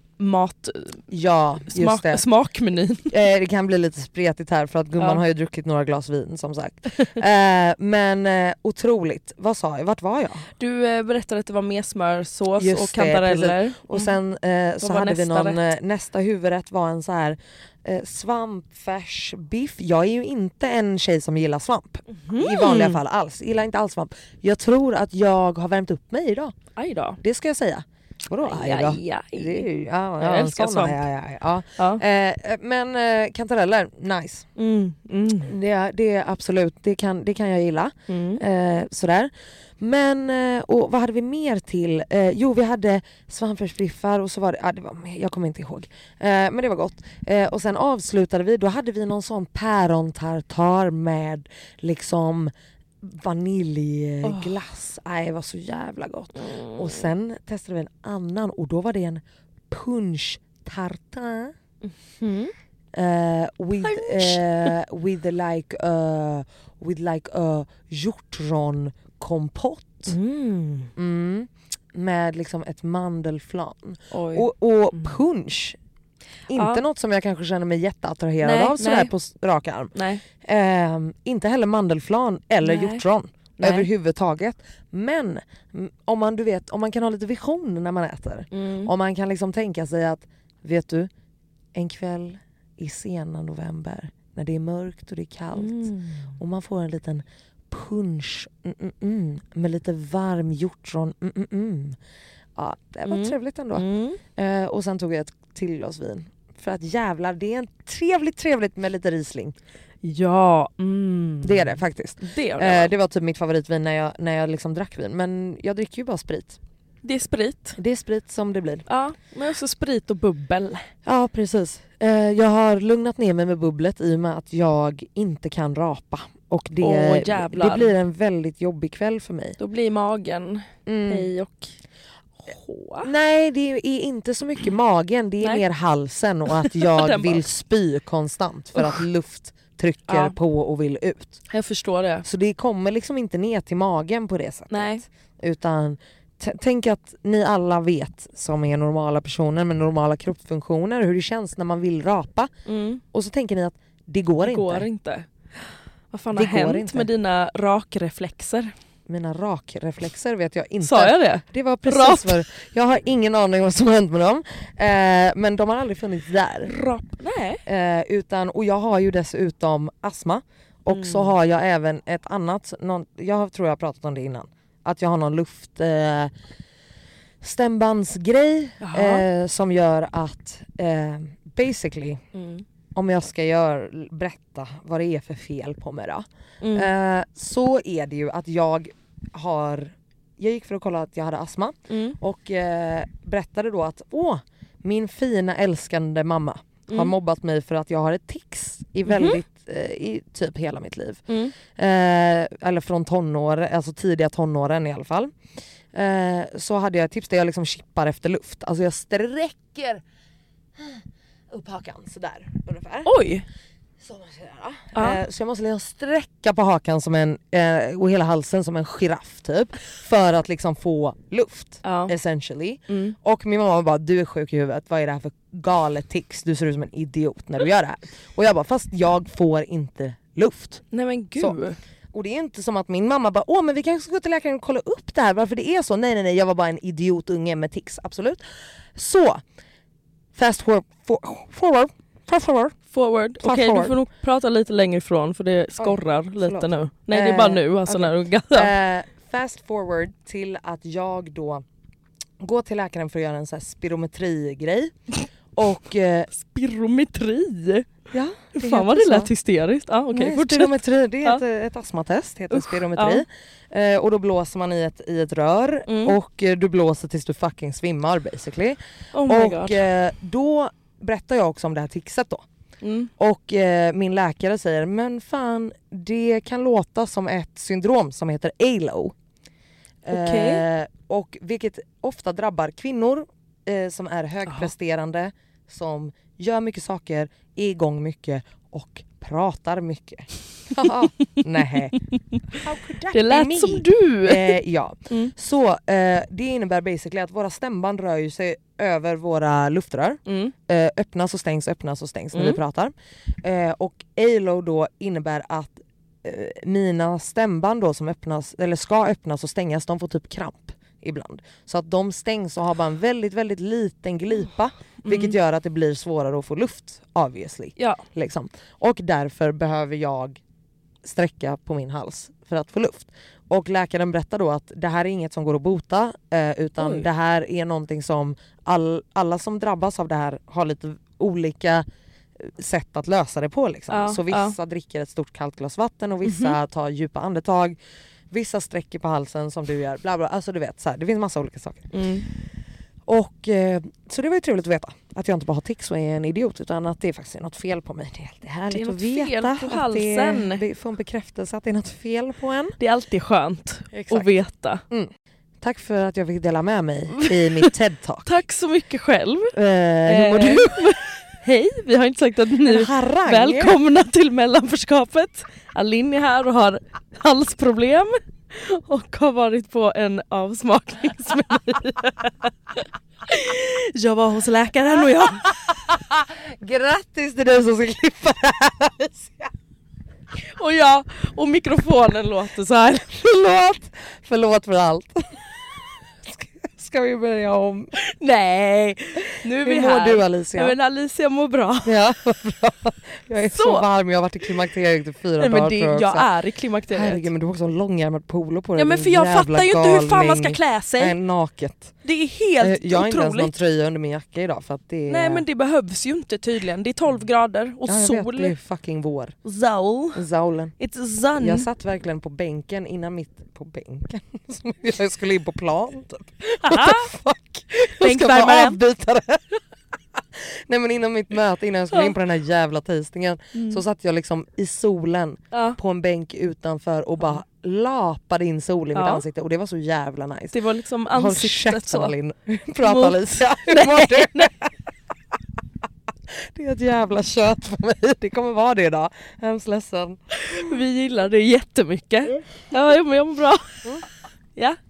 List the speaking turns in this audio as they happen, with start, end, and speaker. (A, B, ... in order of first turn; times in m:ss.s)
0:00.2-0:01.0 A
0:01.1-0:02.2 B
0:01.7-0:03.1 A
0:03.1-0:10.5 B
0:10.6-0:14.1 A
0:12.6-0:26.5 B
0:14.8-0:15.6 A
0:22.1-0:23.0 A
0:26.8-0:27.2 A
0:27.2-0:34.4 B
0:28.4-0:29.7 A
0:30.2-0:31.0 A
0:34.6-0:35.5 A
0:35.4-1:01.5 B
0:38.1-0:38.4 A
0:54.2-0:54.5 A
0:56.4-0:57.1 A
1:01.9-1:02.5 A
1:02.9-1:10.1 B
1:03.8-1:04.7 A
1:10.1-1:10.9 A
1:10.9-1:15.8 B
1:14.1-1:15.1 A
1:16.5-1:31.1 B
1:16.6-1:16.8 A
1:18.4-1:19.1 A
1:19.9-1:20.2 A
1:22.6-1:23.0 A
1:23.6-1:23.9 A
1:28.5-1:28.9 A
1:31.7-1:42.0 B
1:35.5-1:36.3 A
1:42.6-1:49.5 B
1:43.0-1:44.2 A
1:50.0-1:52.9 A
1:51.4-1:56.6 B
1:57.0-1:57.8 A
1:57.8-1:58.8 B
1:58.9-2:00.9 A
2:01.0-2:09.6 B
2:06.8-2:07.9 A
2:09.6-2:11.7 A
2:10.8-2:11.3 B
2:12.5-2:13.1 A
2:13.0-2:21.4 B
2:16.6-2:17.4 A
2:20.1-2:20.4 A
2:21.5-2:22.2 A
2:22.2-2:32.5 B
2:24.7-2:25.0 A
2:32.6-2:33.0 A
2:33.1-2:34.9 B
2:34.4-2:35.3 A
2:36.1-2:38.7 A
2:36.3-2:37.1 B
2:39.1-2:46.7 B
2:40.8-2:42.4 A
2:46.7-2:47.6 A
2:47.6-2:56.3 B
2:50.9-2:51.3 A
2:57.4-3:02.2 B
2:58.8-2:59.2 A
3:02.3-3:02.6 A
3:02.9-3:25.3 B
3:06.6-3:06.9 A
3:11.9-3:12.2 A
3:16.9-3:17.1 A
3:19.1-3:19.4 A
3:21.3-3:21.5 A
3:25.9-3:30.0 B
3:30.8-3:33.1 B
3:33.0-3:33.4 A
3:34.0-3:50.8 B
3:34.9-3:35.2 A
3:41.8-3:42.1 A
3:42.9-3:43.2 A
3:50.9-3:51.8 A
3:52.1-3:58.4 B
3:58.9-3:59.4 B
4:00.3-4:02.8 B
4:02.9-4:08.7 A
4:03.4-4:04.0 B
4:05.8-4:11.6 B
4:12.4-4:14.9 B
4:15.6-4:16.3 B
4:16.3-4:17.9 A
4:18.1-4:19.3 B
4:18.5-4:21.4 A
4:20.1-4:32.4 B
4:22.5-4:23.2 A
4:25.9-4:26.2 A
4:29.1-4:29.8 A
4:32.8-4:33.1 A
4:33.2-4:39.1 B
4:40.0-4:52.0 B
4:40.1-4:40.6 A
4:52.1-4:52.6 A
4:52.5-5:20.4 B
4:53.1-4:54.6 A
5:00.2-5:00.5 A
5:02.3-5:02.6 A
5:15.0-5:15.4 A
5:17.8-5:18.0 A
5:21.0-5:31.8 B
5:26.8-5:27.0 A
5:32.4-5:37.8 B
5:33.9-5:34.6 A
5:36.2-5:36.6 A
5:38.3-5:41.9 B
5:41.9-5:42.3 A
5:43.1-5:52.8 B
5:48.7-5:50.6 A
5:52.8-5:54.8 A
5:53.9-5:54.3 B
5:54.9-5:58.3 B
5:57.2-5:57.7 A
5:58.2-6:12.5 A
5:59.5-6:00.9 B
6:02.6-6:03.8 B
6:13.3-6:15.5 A
6:15.4-6:19.5 B
6:20.5-6:23.1 A
6:23.0-6:25.3 B
6:26.2-6:27.9 B
6:27.9-6:32.0 A
6:29.6-6:30.7 B
6:31.8-6:36.3 B
6:33.5-6:33.8 A
6:35.4-6:37.3 A
6:36.9-6:41.9 B
6:38.8-6:41.2 A
6:42.0-6:43.5 A
6:42.6-6:45.4 B
6:45.1-6:48.5 A
6:47.8-6:49.4 B
6:49.4-6:50.2 A
6:50.1-6:50.7 B
6:50.8-6:51.7 A
6:51.4-6:59.6 B
6:56.6-6:57.1 A
6:57.9-6:58.8 A
7:00.2-7:10.6 B
7:03.5-7:03.8 A
7:05.5-7:05.8 A
7:08.9-7:09.2 A
7:10.5-7:12.1 A
7:11.1-7:14.7 B
7:12.8-7:14.5 A
7:16.4-7:20.2 B
7:20.3-7:23.8 A